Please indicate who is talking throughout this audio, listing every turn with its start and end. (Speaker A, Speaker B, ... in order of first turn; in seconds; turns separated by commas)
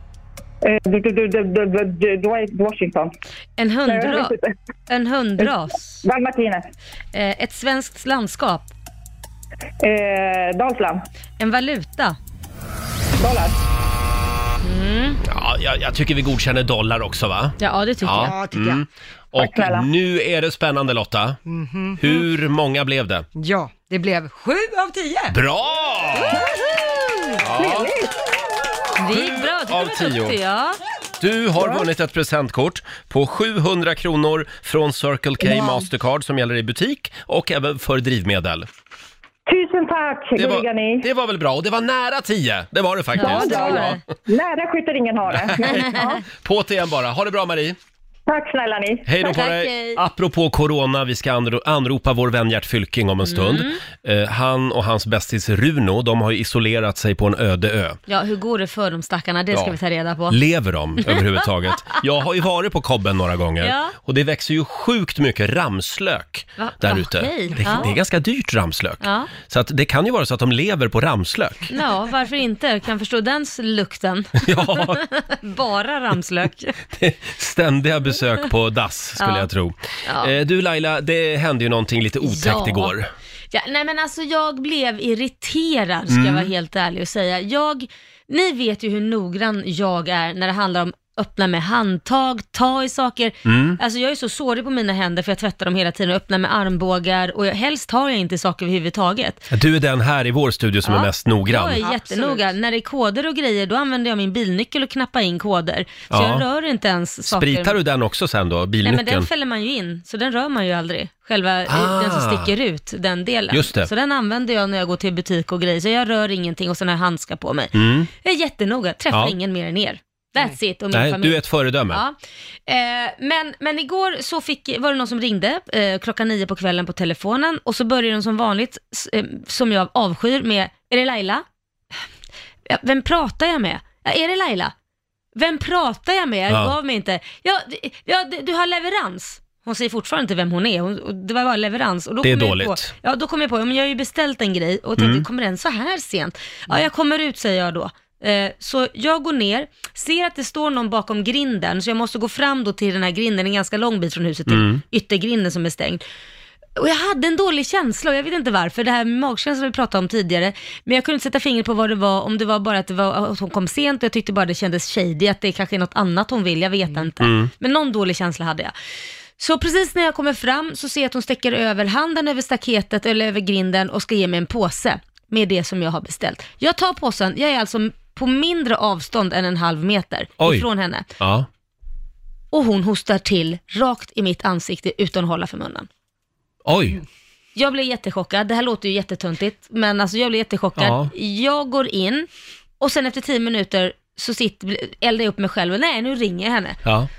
Speaker A: 0.6-3.1, Speaker B: 3.6-4.3, Speaker A: 3.8-4.5, Speaker B: 4.9-6.0, Speaker A: 6.0-6.6, Speaker B: 7.1-8.7, Speaker A: 9.8-11.0, Speaker B: 11.4-12.2, Speaker A: 13.2-13.6, Speaker B: 14.6-15.2, Speaker C: 15.2-21.4, Speaker B: 17.6-18.4, Speaker D: 18.1-18.8, Speaker A: 19.4-19.9, Speaker D: 21.4-22.0, Speaker C: 22.0-23.2, Speaker D: 23.3-25.4, Speaker C: 25.3-26.5, Speaker C: 27.4-27.9, Speaker A: 27.4-28.1, Speaker B: 29.0-30.8, Speaker C: 29.1-30.4, Speaker C: 31.2-38.7, Speaker A: 39.5-41.0, Speaker C: 40.4-44.0, Speaker B: 43.1-44.0, Speaker A: 43.2-46.2, Speaker C: 45.3-47.8, Speaker A: 48.3-49.0, Speaker C: 49.0-58.0, Speaker B: 49.2-50.0, Speaker B: 53.2-53.8, Speaker B: 58.1-60.4, Speaker C: 60.3-71.7, Speaker B: 63.6-63.9, Speaker B: 66.6-67.9, Speaker B: 69.0-69.3, Speaker B: 71.7-76.8, Speaker C: 74.4-75.0, Speaker C: 76.9-83.1, Speaker B: 79.2-79.5, Speaker B: 80.0-80.3, Speaker B: 82.2-82.9, Speaker B: 83.5-99.5, Speaker C: 86.1-86.5, Speaker C: 93.4-93.8, Speaker C: 99.5-101.9, Speaker B: 100.8-107.8, Speaker D: 102.0-102.4, Speaker C: 106.1-106.4, Speaker C: 107.3-109.3, Speaker B: 108.8-121.4, Speaker C: 111.7-112.5, Speaker C: 113.5-113.9, Speaker C: 117.7-118.1, Speaker C: 120.9-122.0, Speaker B: 121.9-122.1, Speaker B: 122.7-131.4, Speaker B: 132.7-134.7, Speaker B: 135.3-156.0, Speaker C: 136.5-136.7, Speaker C: 142.2-142.9, Speaker C: 145.0-145.2, Speaker C: 154.5-154.8, Speaker B: 156.8-168.7, Speaker C: 167.2-167.5, Speaker B: 169.4-181.1, Speaker C: 180.4-180.7, Speaker C: 181.2-181.5, Speaker B: 182.5-185.9, Speaker C: 186.6-187.0, Speaker B: 187.5-192.3, Speaker C: 190.8-191.1, Speaker B: 192.8-196.8